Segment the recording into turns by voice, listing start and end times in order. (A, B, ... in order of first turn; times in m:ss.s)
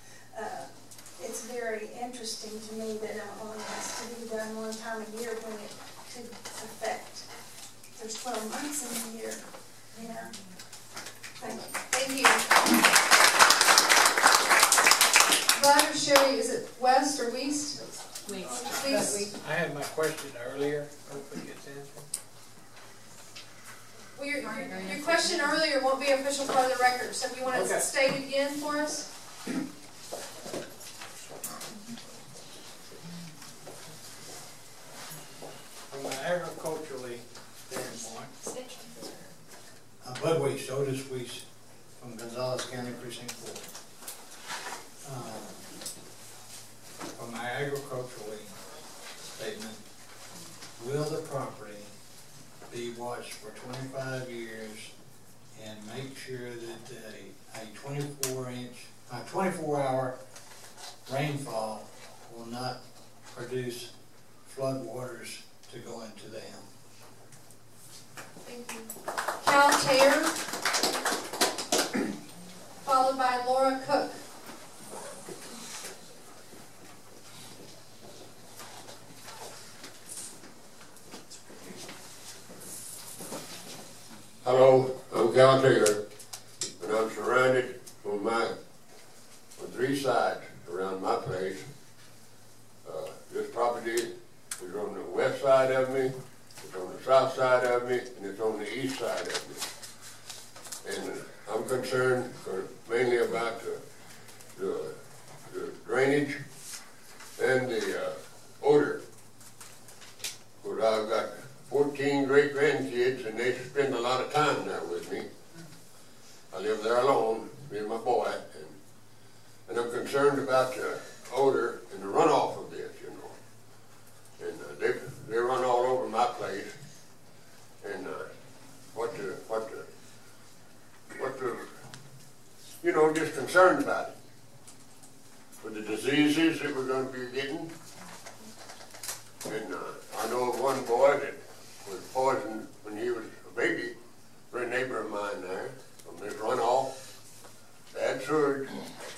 0:00.3-0:07.3 A
0:08.0-0:10.4 A
0:11.4-0:11.8 A
0:11.9-0:12.6 B
0:15.5-0:19.3 B
0:18.4-0:22.1 C
0:24.2-0:29.1 B
0:36.1-0:37.2 D
0:37.7-0:38.3 D
0:38.5-0:38.8 B
0:40.0-0:41.4 D
0:42.0-0:43.6 D
0:45.1-0:45.6 D
0:47.2-0:48.5 D
0:49.4-0:49.8 D
0:50.8-0:51.9 D
0:52.7-0:54.9 D
0:55.6-1:00.1 D
1:01.1-1:02.8 D
1:03.4-1:03.9 D
1:04.5-1:06.7 D
1:08.4-1:08.9 B
1:09.4-1:10.4 B
1:12.8-1:14.2 B
1:24.4-1:26.0 E
1:26.8-1:28.6 E
1:29.6-1:31.7 E
1:32.8-1:39.6 E
1:40.8-1:43.8 E
1:44.6-1:45.0 E
1:45.5-1:46.4 E
1:47.4-1:49.0 E
1:50.6-1:55.3 E
1:56.5-1:58.8 E
1:59.7-2:03.4 E
2:04.4-2:06.7 E
2:07.8-2:08.3 E
2:08.9-2:09.9 E
2:11.1-2:11.7 E
2:12.8-2:14.1 E
2:15.6-2:17.7 E
2:19.4-2:23.9 E
2:24.5-2:26.9 E
2:27.9-2:28.9 E